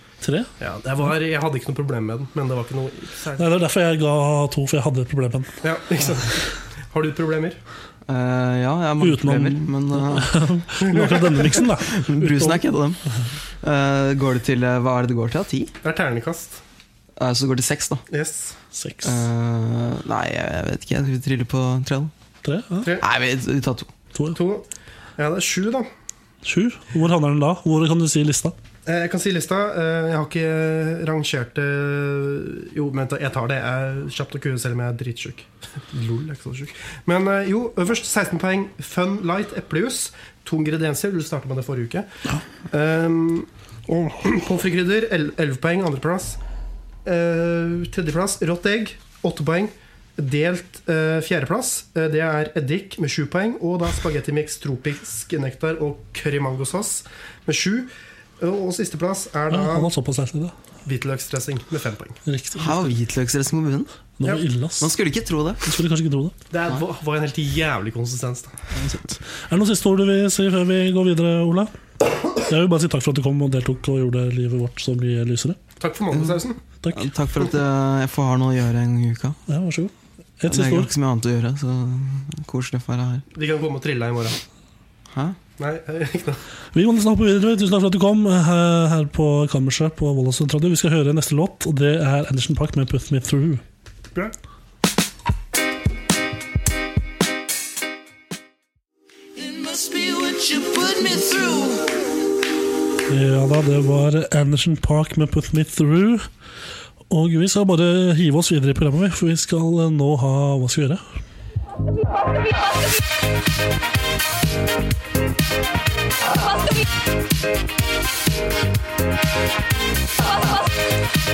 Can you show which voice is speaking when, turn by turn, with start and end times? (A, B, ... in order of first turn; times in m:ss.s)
0:00.2-0:00.5 A
0:00.6-0:03.5 B
0:03.4-0:05.6 A
0:05.6-0:07.6 B
0:08.1-0:10.4 C
0:09.0-0:12.6 A
0:10.8-0:11.6 B
0:11.8-0:13.0 C
0:13.6-0:15.7 C
0:15.8-0:16.6 B
0:17.2-0:18.0 C
0:18.1-0:18.5 B
0:18.7-0:19.3 A
0:19.0-0:22.1 C
0:22.4-0:22.9 A
0:23.0-0:23.9 C
0:24.3-0:24.6 B
0:25.2-0:25.9 B
0:26.4-0:28.6 A
0:28.9-0:42.1 B
0:42.7-0:43.5 B
0:44.0-0:46.4 B
0:47.0-0:59.9 B
0:59.5-1:00.6 A
1:00.9-1:02.2 B
1:02.2-1:03.0 A
1:02.6-1:03.9 C
1:04.2-1:05.0 A
1:04.8-1:05.6 C
1:05.6-1:06.4 A
1:06.5-1:08.7 B
1:08.8-1:11.7 A
1:12.4-1:15.6 A
1:15.8-1:16.6 B
1:16.8-1:17.1 A
1:16.9-1:19.4 C
1:19.5-1:20.9 A
1:20.5-1:23.2 C
1:23.3-1:24.4 B
1:25.1-1:25.4 C
1:25.6-1:26.4 B
1:26.7-1:33.6 A
1:39.8-1:40.6 C
1:41.2-1:41.7 C
1:43.1-1:46.3 A
1:47.1-1:51.0 A